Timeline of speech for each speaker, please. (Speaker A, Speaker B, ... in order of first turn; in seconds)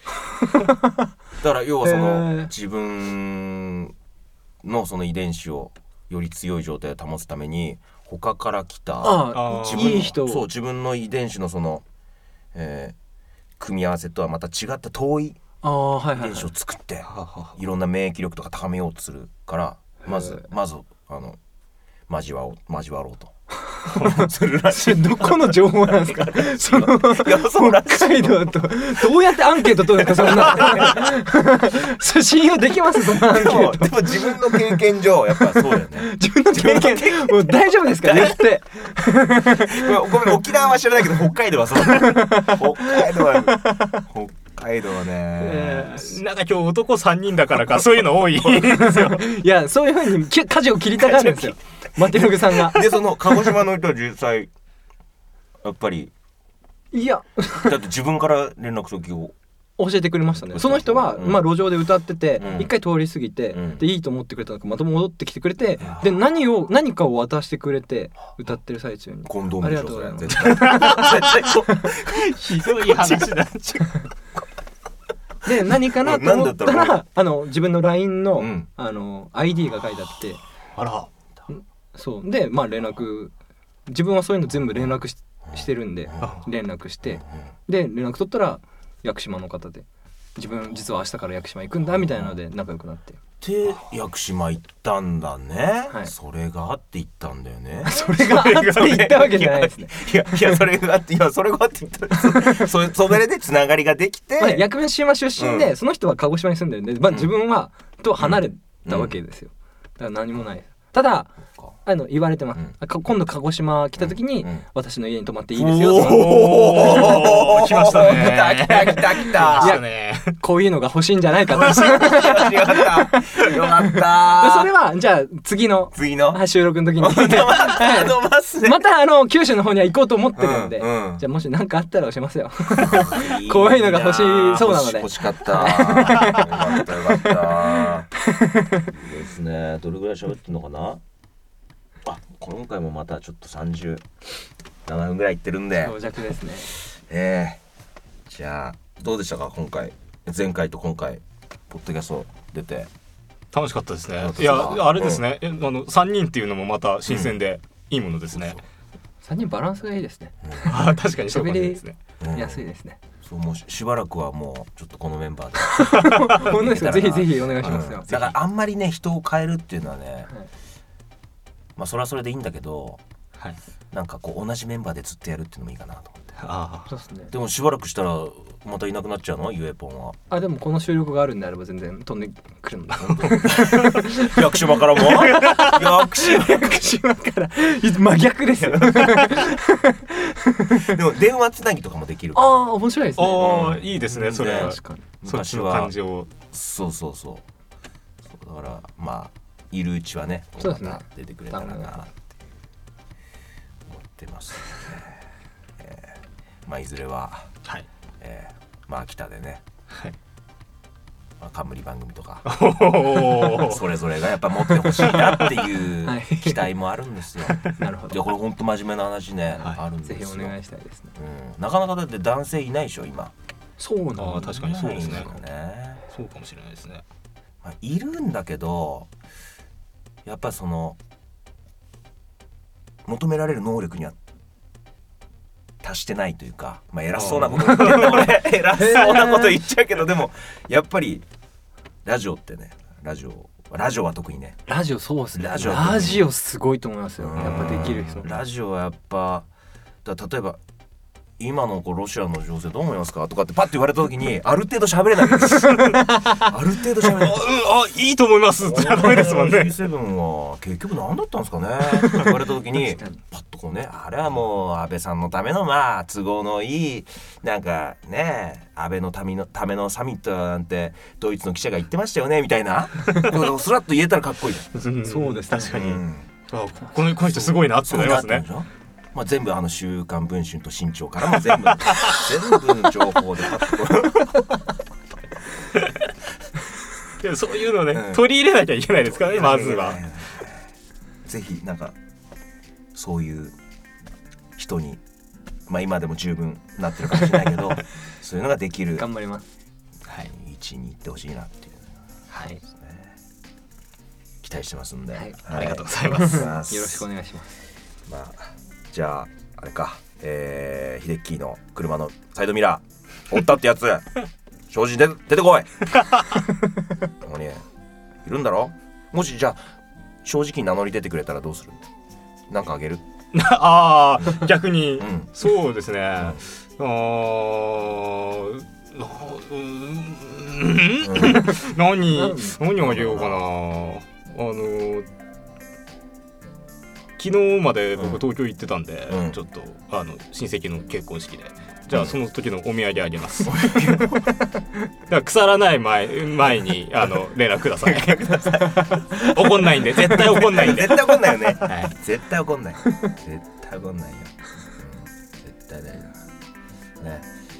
Speaker A: 0.2-1.1, 1.8-2.5, 9.0-10.4, 15.6-16.5, 20.0-20.4, 23.7-34.8, 35.3-40.6, 41.8-44.0, 45.4-46.1, 48.5-53.6, 56.9-57.8, 59.8-71.9, 75.4-80.4, 81.5-83.3, 83.9-93.2, 97.8-100.6, 102.2-102.7, 104.4-117.2, 119.6-137.5, 138.2-138.9, 145.8-146.7, 159.2-163.0, 165.6-168.1, 176.9-177.3, 180.3-191.0, 192.3-193.8, 194.4-195.0, 200.6-202.1, 214.9-216.6, 217.6-218.2, 220.0-221.1, 223.8-224.9, 237.6-239.6, 244.7-248.4, 255.7-256.4, 262.2-263.2, 275.0-275.9, 299.0-299.4, 302.4-302.6, 306.1-307.5, 332.1-332.6, 348.6-349.4, 350.0-350.4
Speaker B: 1.4-3.9, 4.6-11.8, 12.5-12.9, 13.6-15.4, 16.2-21.4, 22.1-23.3, 23.9-29.1, 29.8-31.1, 33.0-38.5, 39.5-46.0, 51.0-54.5, 55.6-56.1, 57.6-59.3, 60.5-61.5, 62.4-62.7, 63.5-63.8, 65.8-66.1, 69.2-73.3, 75.8-77.0, 78.3-78.7, 85.5-86.3, 92.0-92.3, 93.4-104.7, 105.4-105.7, 108.2-109.2, 114.0-114.6, 115.5-119.8, 121.5-124.7, 125.9-126.4, 127.0-128.8, 130.3-131.2, 132.7-138.1, 138.9-141.0, 142.0-144.0, 144.8-146.0, 146.7-147.6, 148.3-152.9, 154.2-155.2, 157.1-157.4, 162.2-162.6, 163.2-170.3, 171.8-173.0, 173.9-176.3, 177.3-180.2, 183.1-186.8, 188.6-189.2, 190.8-192.6, 193.4-195.9, 196.5-197.5, 198.2-202.1, 203.8-205.2, 205.8-207.5, 208.2-209.6, 211.4-212.5, 213.1-220.5, 221.2-223.3, 224.4-226.0, 227.6-229.1, 230.2-231.0, 233.0-234.2, 235.8-241.2, 242.0-244.6, 245.3-246.2, 247.2-249.5, 250.0-250.6, 251.4-257.4, 258.6-274.7, 275.7-276.3, 277.8-284.5, 287.9-288.2, 289.0-290.7, 291.2-291.9, 292.9-293.6, 294.6-295.0, 295.7-299.1, 300.2-301.9, 302.6-303.1, 304.4-307.0, 308.1-314.1, 314.7-315.8, 317.2-317.6, 318.2-319.7, 320.2-321.8, 322.5-323.1, 324.2-324.4, 325.0-325.3, 331.0-331.6, 332.8-333.4, 337.9-338.2, 339.1-339.4, 343.4-344.3, 347.8-349.1, 350.1-356.2, 357.0-357.3
Speaker C: 9.3-10.1, 17.1-17.5, 45.4-49.3, 70.6-71.2, 72.0-74.0, 80.8-81.1, 115.9-120.3, 153.5-158.6, 160.6-162.0, 166.1-166.6, 168.1-168.3, 176.4-176.9, 183.0-184.0, 185.4-185.7, 193.2-196.3, 212.4-213.8, 224.2-225.3, 226.1-227.0, 237.1-238.3, 255.7-256.0, 257.1-259.8, 274.7-278.4, 281.7-282.3, 287.2-290.0, 305.5-306.5, 316.0-316.2, 323.3-335.1, 337.2-344.1, 345.1-348.4, 348.9-351.9